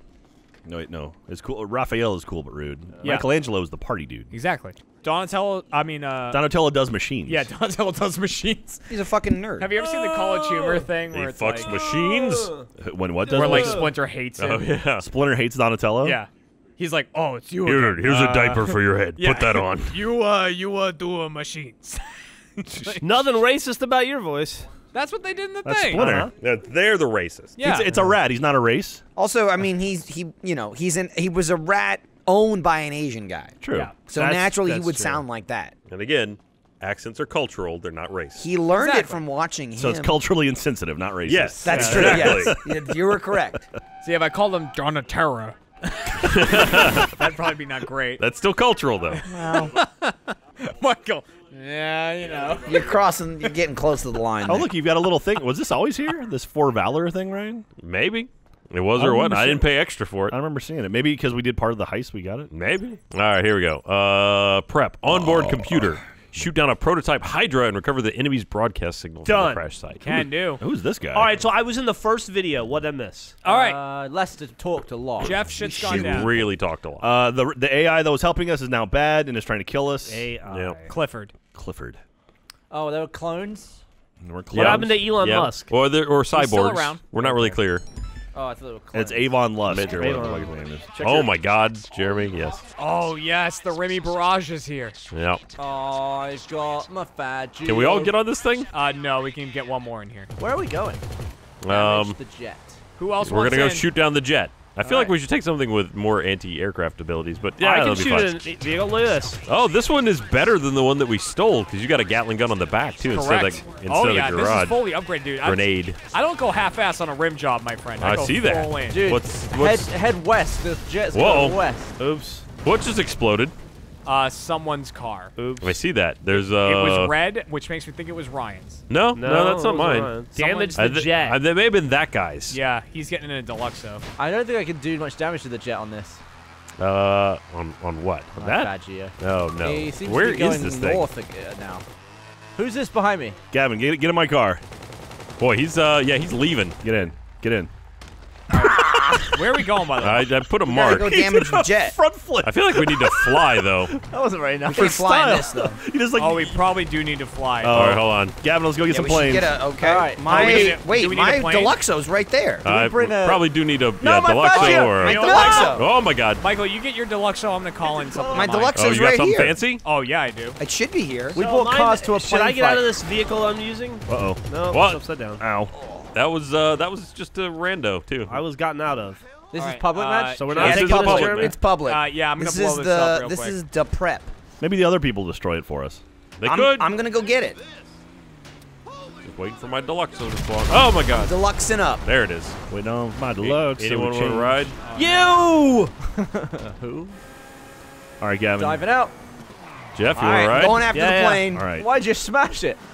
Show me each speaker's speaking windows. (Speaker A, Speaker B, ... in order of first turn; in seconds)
Speaker A: 0.6-4.3, 6.3-7.5, 12.8-13.9, 15.0-16.2, 25.6-26.3, 27.6-29.0, 33.6-35.2, 39.8-43.4, 54.4-57.6, 59.0-59.7, 60.3-62.5, 65.1-66.4, 70.6-71.3, 77.0-80.3, 81.5-82.0, 84.2-85.1, 88.9-91.3, 138.4-138.7, 143.5-144.6, 146.8-147.7, 150.8-153.6, 154.7-156.6, 157.6-159.5, 174.1-174.4, 175.4-175.7, 184.6-186.0, 192.7-194.7, 198.2-198.8, 201.5-201.8
Speaker B: 3.0-3.3, 4.3-6.5, 7.2-8.8, 9.6-11.8, 13.2-14.8, 16.0-23.1, 24.9-26.1, 27.6-27.9, 38.7-39.2, 44.0-45.6, 46.2-48.2, 49.2-53.0, 70.0-70.6, 73.4-73.8, 75.2-76.3, 80.9-81.3, 86.3-87.0, 92.8-95.0, 98.7-100.3, 103.0-103.9, 104.8-105.1, 113.1-119.1, 124.0-125.3, 126.5-128.8, 130.4-130.8, 132.5-134.1, 149.2-150.4, 156.1-157.8, 160.2-161.8, 164.5-165.8, 166.4-168.8, 169.8-170.6, 179.6-180.6, 181.8-183.6, 194.8-195.4
Speaker C: 8.9-9.7, 29.1-35.7, 38.4-40.1, 41.6-43.7, 49.3-49.8, 52.6-54.7, 150.7-152.0, 154.7-155.8, 158.9-162.6, 165.0-165.8, 168.3-169.6, 170.6-171.4, 180.6-184.3, 186.5-187.6, 191.1-192.0, 200.1-201.7
Speaker D: 9.9-10.8, 11.7-12.6, 13.3-13.9, 23.0-24.7, 25.9-26.3, 41.3-42.1, 69.2-70.3, 71.1-73.4, 80.0-81.0, 84.5-85.7, 89.8-90.6, 107.6-109.4, 122.0-122.4, 125.3-125.8, 129.1-131.4, 171.3-175.4, 178.3-179.2, 180.5-181.2, 194.9-195.9, 200.9-201.4
Speaker E: 11.1-12.6, 14.4-15.0, 17.6-20.0, 26.1-27.6, 35.9-38.5, 41.3-42.6, 46.2-47.1, 48.2-49.2, 57.8-60.4, 62.5-70.3, 75.6-77.1, 80.5-80.8, 84.5-87.8, 89.7-90.3, 91.0-92.6, 95.1-95.4, 97.6-98.7, 101.6-102.2, 103.2-108.4, 109.5-116.0, 118.0-119.9, 121.1-121.6, 122.6-123.5, 125.6-127.1, 128.9-130.2, 130.7-132.6, 136.8-138.3, 139.2-141.1, 145.4-146.8, 150.0-151.1, 152.4-153.9, 157.7-158.3, 162.6-166.4, 168.7-169.8, 174.7-175.1, 176.1-178.4, 180.5-181.6, 186.4-186.9, 189.2-191.4, 192.0-192.6, 193.4-194.8, 199.9-200.8
Speaker F: 73.4-75.4, 82.7-83.8, 87.2-87.5, 88.3-89.4, 95.6-98.1, 100.4-101.0, 101.7-102.8, 118.9-121.9, 130.4-130.7, 134.2-136.2, 138.4-141.8, 142.6-143.4, 154.1-155.1, 159.8-160.7, 162.6-163.5, 164.0-165.8, 167.8-168.5, 171.3-173.0, 179.5-181.5, 196.2-197.2, 198.6-199.1, 200.9-202.8